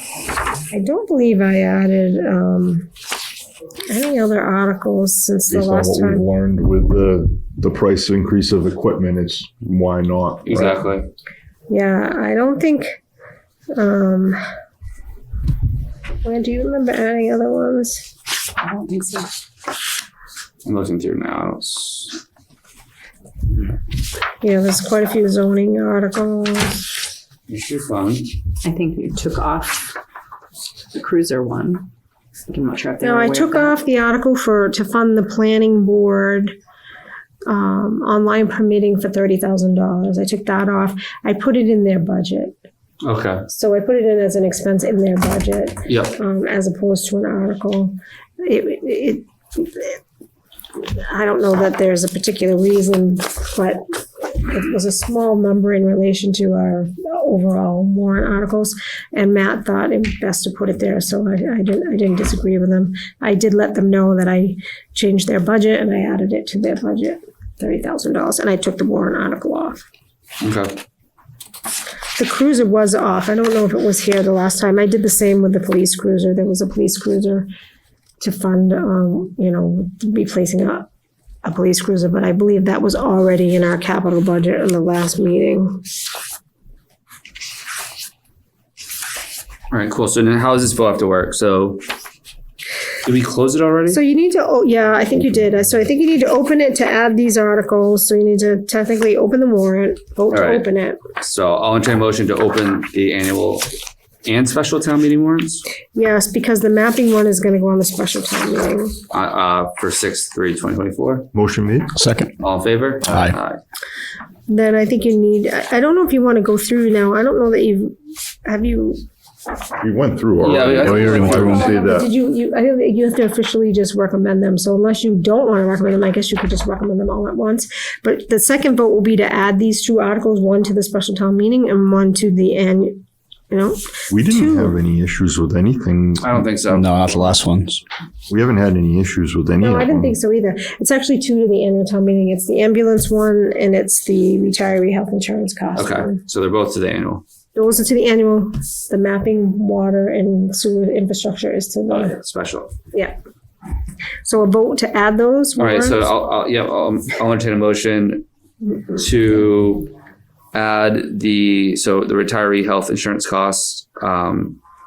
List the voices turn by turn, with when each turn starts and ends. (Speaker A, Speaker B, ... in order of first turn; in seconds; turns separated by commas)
Speaker A: 0.7-2.9, Speaker A: 3.9-6.2, Speaker B: 5.5-10.8, Speaker C: 10.4-11.1, Speaker A: 11.7-12.9, Speaker A: 13.7-14.4, Speaker A: 16.2-18.1, Speaker D: 18.6-19.3, Speaker C: 20.6-22.2, Speaker A: 24.4-26.9, Speaker C: 27.5-28.3, Speaker D: 28.6-29.9, Speaker D: 30.9-31.9, Speaker D: 32.5-33.8, Speaker A: 33.0-36.5, Speaker A: 37.4-42.5, Speaker C: 43.0-43.4, Speaker A: 43.5-50.0, Speaker C: 45.9-46.1, Speaker A: 50.8-53.8, Speaker A: 54.4-69.8, Speaker C: 70.4-70.8, Speaker A: 72.2-77.5, Speaker A: 78.2-80.9, Speaker A: 81.4-85.8, Speaker C: 89.7-91.8, Speaker C: 93.0-94.0, Speaker A: 93.9-101.0, Speaker C: 100.3-100.7, Speaker C: 101.2-103.7, Speaker C: 104.2-105.6, Speaker A: 105.9-109.0, Speaker C: 109.1-111.3, Speaker B: 111.3-111.9, Speaker E: 111.9-112.3, Speaker C: 112.4-113.6, Speaker E: 113.0-113.3, Speaker A: 114.5-119.0, Speaker B: 119.8-122.1, Speaker C: 120.4-121.7, Speaker E: 120.8-121.6, Speaker A: 121.0-134.8, Speaker B: 134.1-136.4, Speaker C: 136.2-136.9, Speaker E: 136.7-137.8, Speaker B: 138.3-140.2, Speaker A: 139.6-146.2, Speaker C: 145.8-147.2, Speaker A: 147.5-152.1, Speaker C: 151.9-152.7, Speaker A: 154.2-156.2, Speaker C: 155.6-158.2, Speaker C: 158.9-159.9, Speaker C: 160.5-164.6